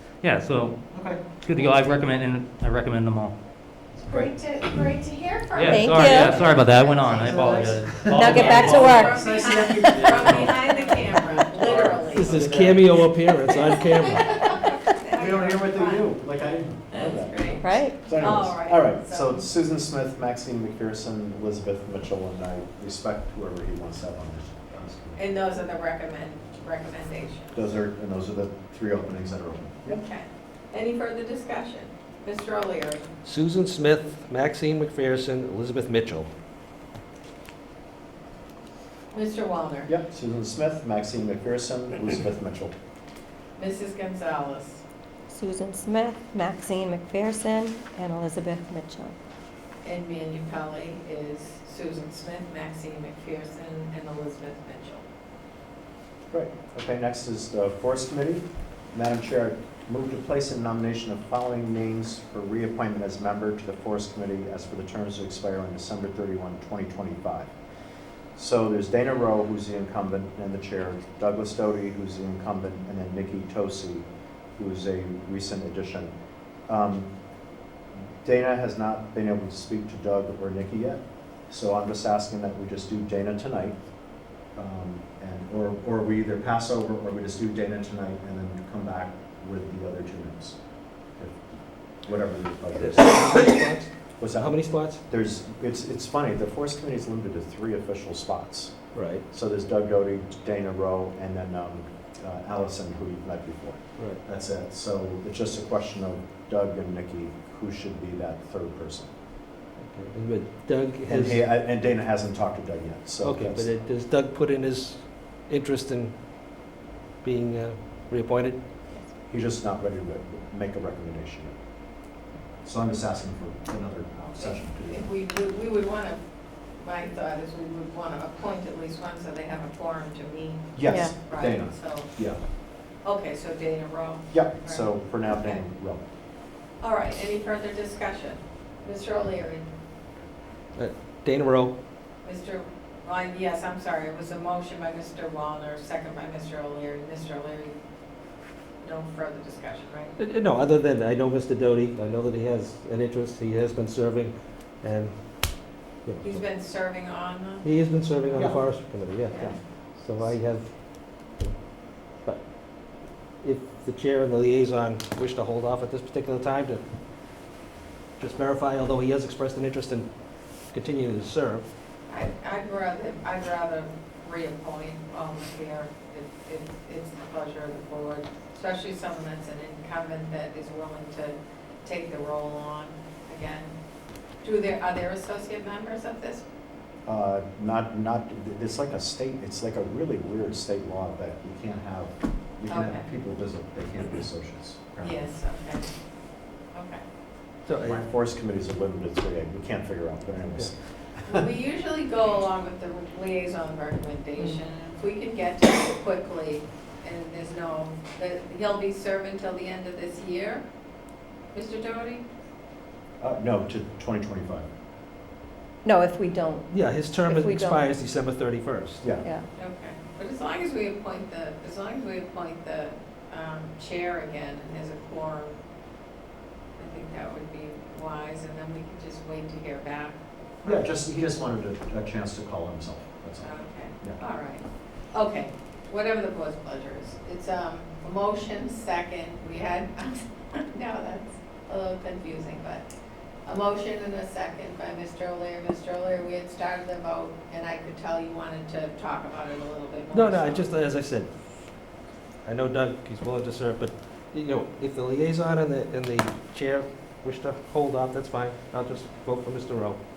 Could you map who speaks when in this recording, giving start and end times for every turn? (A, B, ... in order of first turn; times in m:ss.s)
0:00.2-0:03.3 A
0:00.9-0:01.2 B
0:03.9-0:04.3 B
0:04.1-0:16.1 C
0:05.5-0:09.1 A
0:05.7-0:06.4 D
0:07.2-0:12.8 B
0:07.9-0:08.9 E
0:08.0-0:09.2 D
0:09.8-0:10.1 D
0:12.1-0:14.6 E
0:15.1-0:25.3 B
0:16.9-0:19.4 C
0:17.6-0:18.1 D
0:25.2-0:27.6 C
0:27.5-0:30.0 B
0:29.8-0:33.1 C
0:33.2-0:36.3 E
0:39.1-0:39.9 C
0:39.8-0:42.7 B
0:43.6-0:44.8 C
0:45.3-0:49.1 D
0:49.8-0:55.0 C
0:56.3-1:07.5 B
1:08.3-1:14.0 B
1:14.6-1:16.1 B
1:16.7-1:17.1 B
1:18.2-1:23.8 B
1:24.5-1:30.6 B
1:32.0-1:33.5 B
1:32.8-1:35.0 E
1:34.2-1:49.1 B
1:38.9-1:39.2 E
1:49.8-1:51.4 E
1:51.0-1:53.7 B
1:53.2-1:56.1 E
1:57.2-1:58.6 E
1:59.3-2:01.5 B
2:02.6-2:05.0 B
2:04.4-2:06.2 C
2:06.8-2:12.1 C
2:10.7-2:12.4 B
2:10.8-2:11.2 D
2:13.0-2:15.6 C
2:14.3-2:16.0 B
2:16.8-2:19.6 C
2:20.8-2:21.7 E
2:22.2-2:27.7 C
2:28.8-2:30.1 C
2:30.2-2:35.1 E
2:36.0-2:36.4 E
2:36.2-2:37.6 C
2:37.6-2:39.4 E
2:38.3-2:38.6 B
2:39.3-2:39.5 C
2:40.0-2:40.7 E
2:43.4-2:46.8 E
2:48.2-2:50.1 E
2:50.7-2:51.6 E
2:52.1-3:03.7 C
3:04.4-3:06.4 C
3:07.0-3:15.2 B
3:12.7-3:13.1 C
3:15.0-3:15.8 C
3:16.7-3:17.0 C
3:17.7-3:18.0 E
3:17.8-3:21.4 B
3:21.3-3:30.6 C
3:31.5-3:32.2 C
3:33.2-3:34.6 B
3:35.8-3:36.6 D
3:36.7-3:39.0 E
3:37.2-3:37.8 D
3:39.2-3:39.5 D
3:39.5-3:45.6 C
3:46.8-3:50.9 C
3:50.6-3:54.2 B
3:53.4-4:02.8 C
4:03.4-4:10.7 C
4:10.1-4:11.3 E
4:12.4-4:20.0 E